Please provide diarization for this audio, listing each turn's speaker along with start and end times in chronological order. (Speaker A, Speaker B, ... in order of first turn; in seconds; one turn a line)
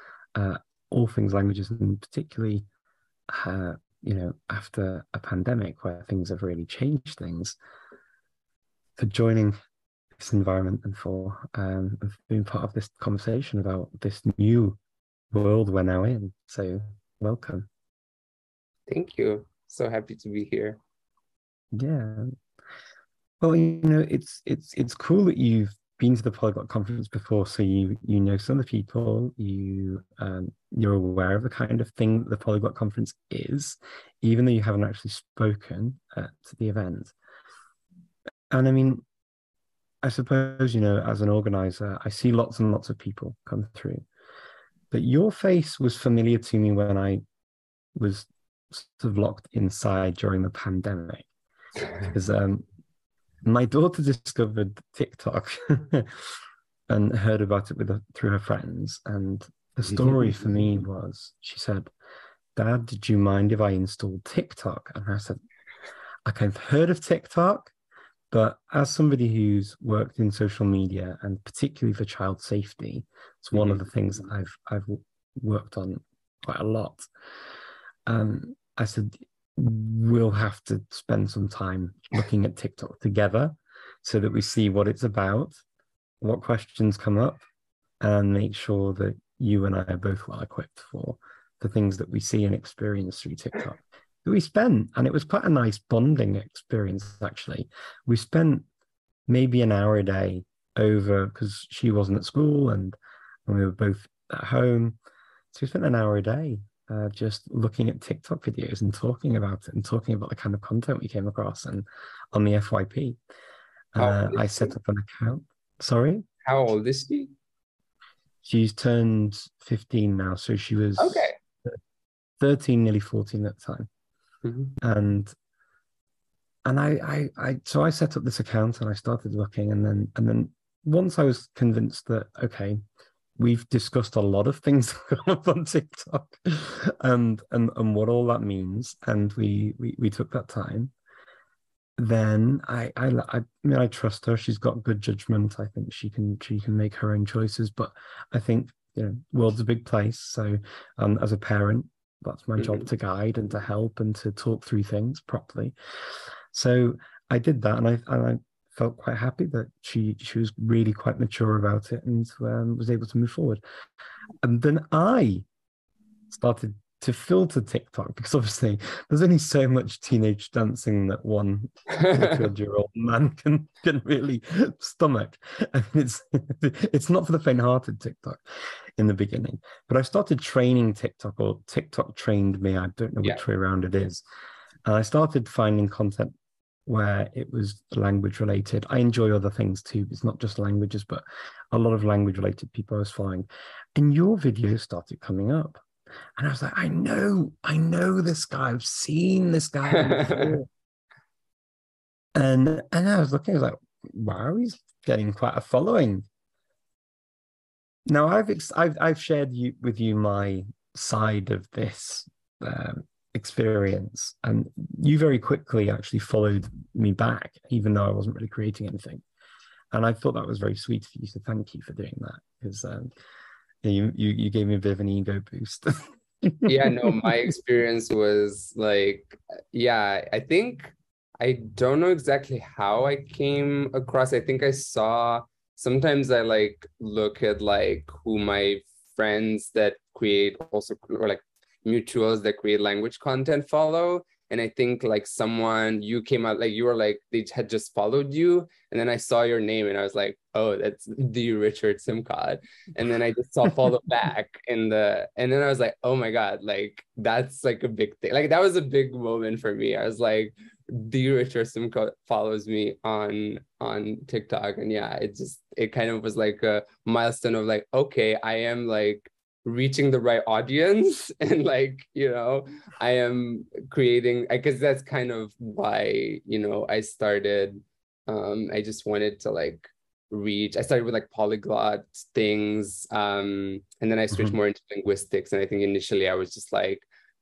Speaker A: 0.3-2.6
Speaker A: 3.3-7.6
Speaker A: 9.0-9.5
Speaker A: 10.2-14.8
Speaker A: 15.3-17.7
Speaker B: 18.9-20.8
Speaker A: 21.7-22.3
Speaker A: 23.4-37.1
Speaker A: 38.5-39.0
Speaker A: 40.0-44.0
Speaker A: 44.9-47.2
Speaker A: 48.0-51.3
Speaker A: 52.1-52.6
Speaker A: 53.5-56.3
Speaker A: 56.9-61.9
Speaker A: 62.6-65.4
Speaker A: 66.2-67.7
Speaker A: 68.3-77.1
Speaker B: 73.5-73.8
Speaker A: 78.1-85.5
Speaker A: 86.2-87.4
Speaker A: 88.0-98.7
Speaker A: 99.3-105.0
Speaker A: 105.5-113.2
Speaker A: 114.0-116.2
Speaker B: 114.0-114.8
Speaker B: 116.5-117.3
Speaker A: 118.4-121.8
Speaker B: 121.0-121.3
Speaker A: 122.4-123.9
Speaker B: 124.4-124.8
Speaker A: 124.8-125.3
Speaker A: 126.7-132.8
Speaker A: 133.4-140.9
Speaker A: 142.0-155.8
Speaker B: 152.6-152.9
Speaker A: 156.5-163.6
Speaker A: 164.4-165.4
Speaker A: 166.3-178.4
Speaker B: 171.9-172.3
Speaker A: 179.0-184.2
Speaker A: 184.9-186.3
Speaker A: 186.9-195.8
Speaker A: 196.4-200.7
Speaker B: 199.9-200.5
Speaker A: 202.4-206.2
Speaker A: 208.1-219.2
Speaker A: 219.9-223.1
Speaker A: 223.8-227.4
Speaker B: 226.7-287.1